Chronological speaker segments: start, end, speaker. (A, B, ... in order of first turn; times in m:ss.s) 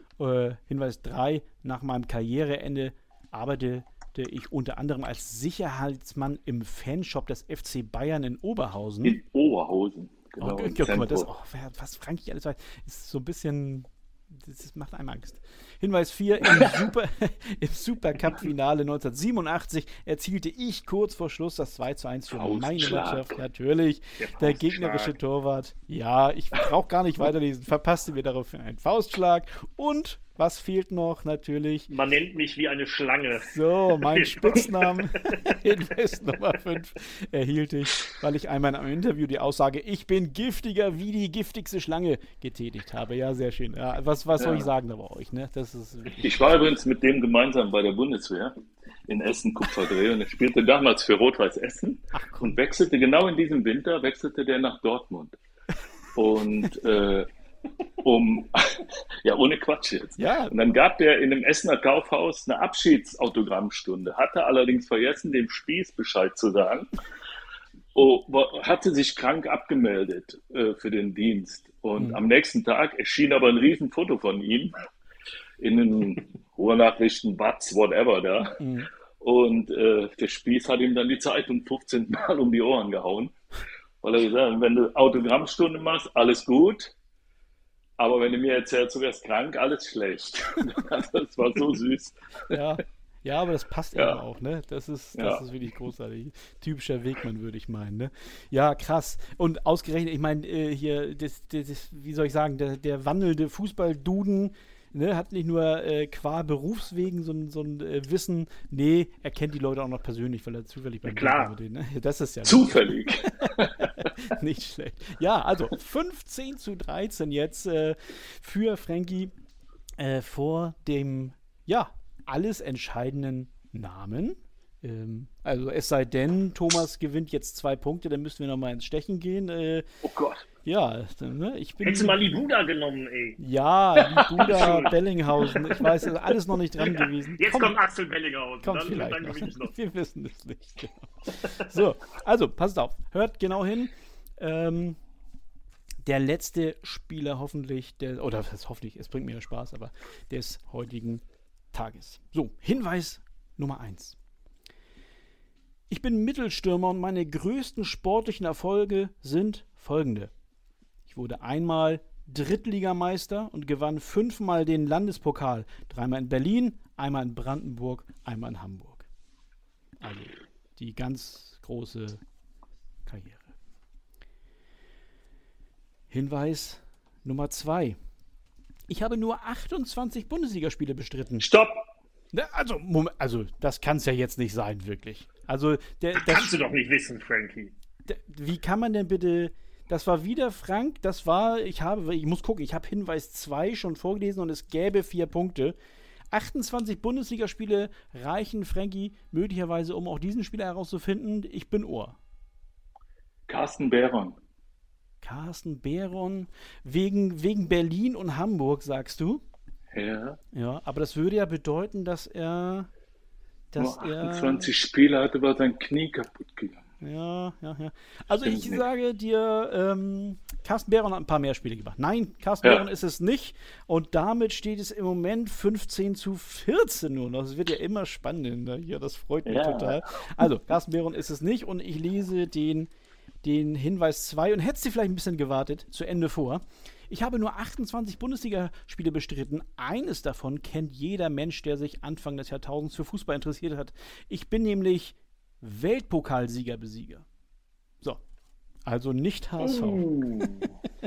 0:00.2-0:09.2 A
0:09.0-0:11.3 B
0:10.4-0:31.9 A
0:16.5-0:16.7 B
0:22.3-0:23.4 B
0:24.2-0:25.1 C
0:31.9-0:35.6 C
0:33.4-0:46.5 A
0:44.4-0:44.7 B
0:46.1-0:48.5 B
0:49.1-0:55.4 B
0:52.1-0:52.6 A
0:56.2-0:57.3 B
0:58.0-1:06.9 B
1:00.2-1:00.6 A
1:07.9-1:14.7 B
1:15.6-1:18.6 B
1:18.6-1:18.9 A
1:19.2-1:23.3 B
1:24.0-1:26.9 B
1:28.0-1:32.6 B
1:32.5-1:59.3 A
1:33.9-1:34.2 B
1:35.1-1:35.4 B
1:51.0-1:51.6 C
1:52.4-1:54.1 B
2:00.0-2:09.8 A
2:10.0-2:10.5 B
2:10.6-2:12.4 A
2:11.8-2:13.4 C
2:13.4-2:17.8 A
2:14.2-2:16.1 C
2:14.4-2:14.8 B
2:16.8-2:19.7 C
2:18.6-2:25.0 A
2:21.4-2:21.8 C
2:26.0-2:34.2 A
2:35.9-2:40.3 A
2:41.1-2:49.0 A
2:50.0-2:52.2 A
2:53.0-2:53.5 A
2:56.1-2:58.0 A
2:58.9-3:01.5 A
3:01.4-3:01.8 B
3:02.3-3:06.6 A
3:06.1-3:07.7 C
3:08.0-3:15.8 A
3:16.3-3:22.2 A
3:23.5-3:24.4 B
3:25.2-3:29.4 A
3:29.9-3:30.4 B
3:30.5-3:32.9 A
3:33.7-3:34.7 A
3:33.8-3:36.8 B
3:37.0-3:52.9 A
3:38.3-3:38.8 B
3:49.4-3:50.4 B
3:53.4-4:07.2 A
4:08.8-4:10.2 A
4:09.8-4:10.7 C